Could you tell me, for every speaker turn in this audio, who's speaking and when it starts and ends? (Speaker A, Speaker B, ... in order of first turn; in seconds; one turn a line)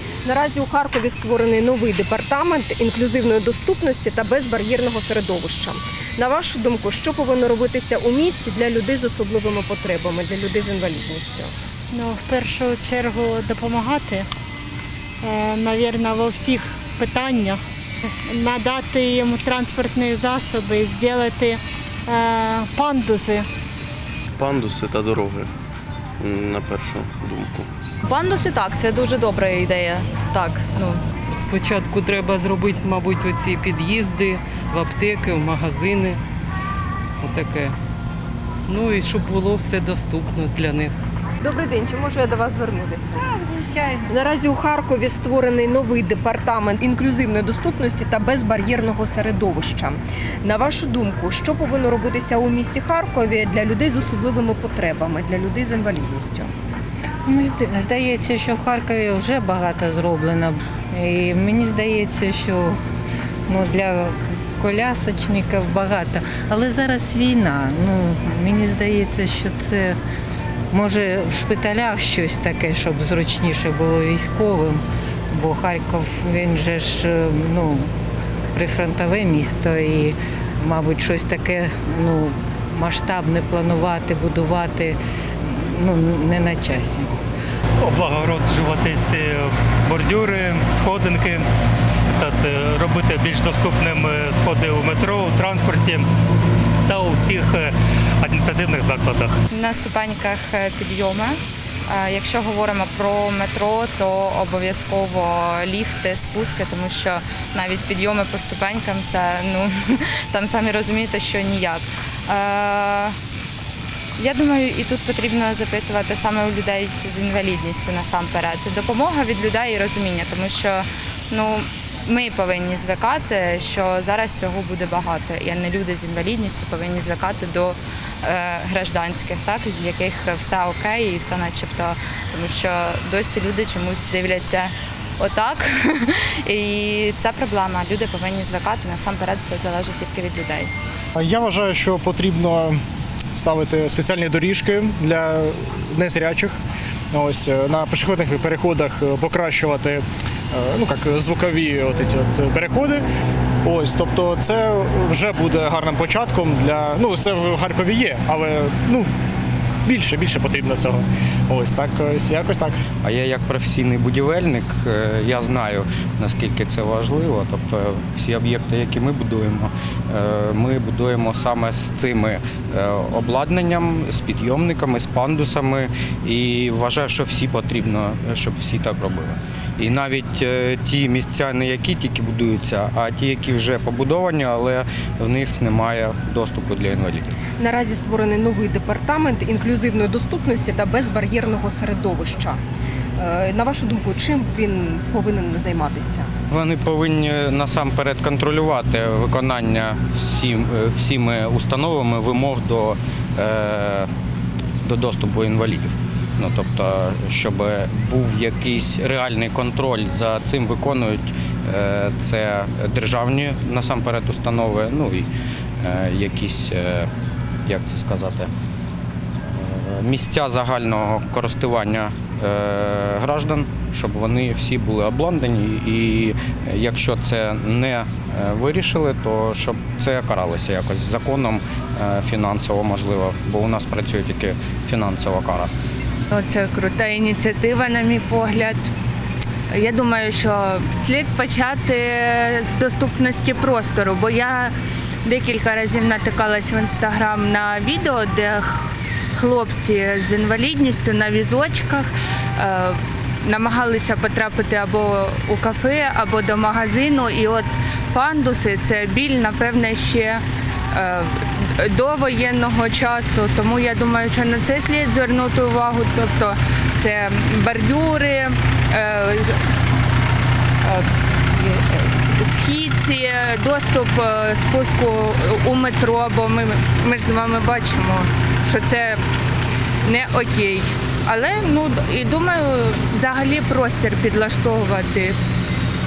Speaker A: 0.2-11.5
Speaker B: 11.9-14.3
Speaker B: 15.2-17.6
Speaker B: 18.2-23.5
Speaker C: 24.4-25.5
Speaker C: 26.2-27.7
Speaker D: 28.0-31.0
Speaker E: 31.3-36.2
Speaker E: 37.2-37.8
Speaker E: 38.7-41.0
Speaker A: 41.4-43.3
Speaker F: 43.3-44.1
Speaker A: 44.1-56.5
Speaker F: 57.3-62.8
Speaker F: 63.5-70.0
Speaker F: 70.7-77.9
Speaker F: 78.5-87.1
Speaker G: 87.8-91.5
Speaker G: 92.2-96.1
Speaker G: 96.8-99.4
Speaker H: 99.5-113.2
Speaker H: 114.2-140.7
Speaker I: 141.2-142.8
Speaker I: 143.3-146.6
Speaker I: 147.1-153.0
Speaker I: 153.6-159.1
Speaker I: 159.8-162.8
Speaker J: 163.0-187.3
Speaker A: 187.6-192.6
Speaker A: 193.2-196.3
Speaker J: 196.5-204.1
Speaker J: 204.8-215.3
Speaker J: 215.8-217.1
Speaker J: 217.7-218.5
Speaker J: 219.5-235.7
Speaker K: 236.3-238.8
Speaker K: 239.7-260.4
Speaker K: 260.9-269.6
Speaker K: 270.8-279.2
Speaker K: 280.0-285.4